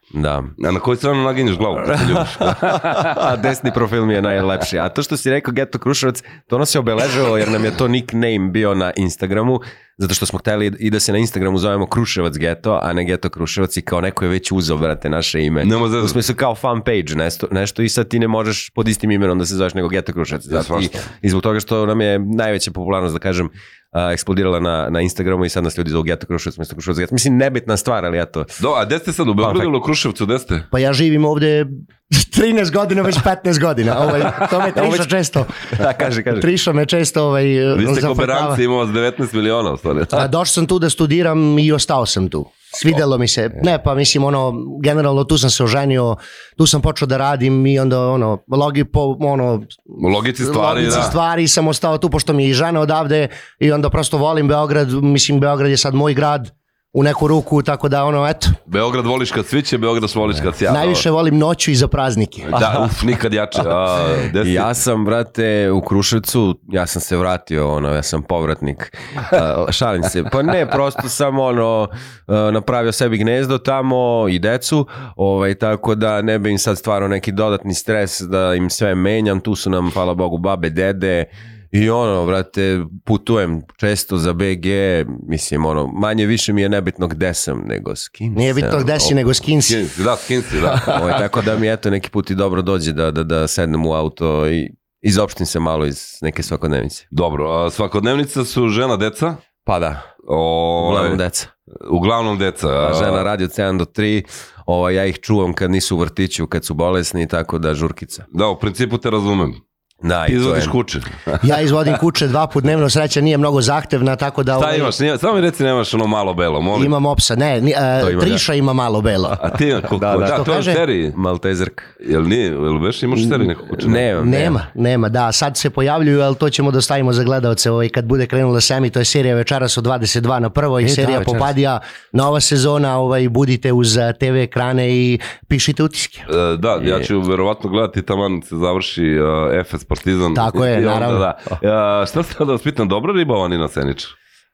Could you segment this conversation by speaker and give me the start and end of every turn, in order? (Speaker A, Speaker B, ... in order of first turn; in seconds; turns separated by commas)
Speaker A: 0.1-0.5, Speaker B: 0.6-3.3, Speaker A: 1.9-28.6, Speaker B: 15.6-16.2, Speaker B: 20.5-21.0, Speaker B: 28.6-30.7, Speaker A: 29.4-29.7, Speaker C: 30.7-35.8, Speaker A: 34.7-35.1, Speaker A: 35.7-36.5, Speaker C: 36.3-38.6, Speaker B: 37.7-40.3, Speaker C: 40.1-49.9, Speaker B: 50.0-51.2, Speaker C: 50.4-58.6, Speaker B: 58.7-61.0, Speaker C: 60.7-62.5, Speaker B: 62.5-64.8, Speaker A: 64.4-89.1, Speaker C: 88.3-89.9, Speaker B: 89.7-91.0, Speaker C: 90.7-91.0, Speaker A: 90.9-97.1, Speaker B: 97.1-99.4, Speaker A: 99.7-100.1, Speaker B: 100.2-101.2, Speaker A: 100.8-101.5, Speaker B: 101.8-103.3, Speaker A: 102.8-108.3, Speaker B: 108.3-109.6, Speaker A: 110.0-110.8, Speaker B: 110.3-111.5, Speaker C: 111.4-114.9, Speaker B: 114.5-116.9, Speaker C: 116.7-119.4, Speaker A: 118.0-118.5, Speaker B: 119.4-121.2, Speaker A: 119.9-120.5, Speaker C: 120.2-120.8, Speaker A: 121.1-121.9, Speaker B: 122.0-124.1, Speaker A: 123.7-124.6, Speaker C: 124.1-136.3, Speaker A: 130.8-131.5, Speaker B: 136.3-144.1, Speaker A: 136.8-137.1, Speaker C: 140.3-141.3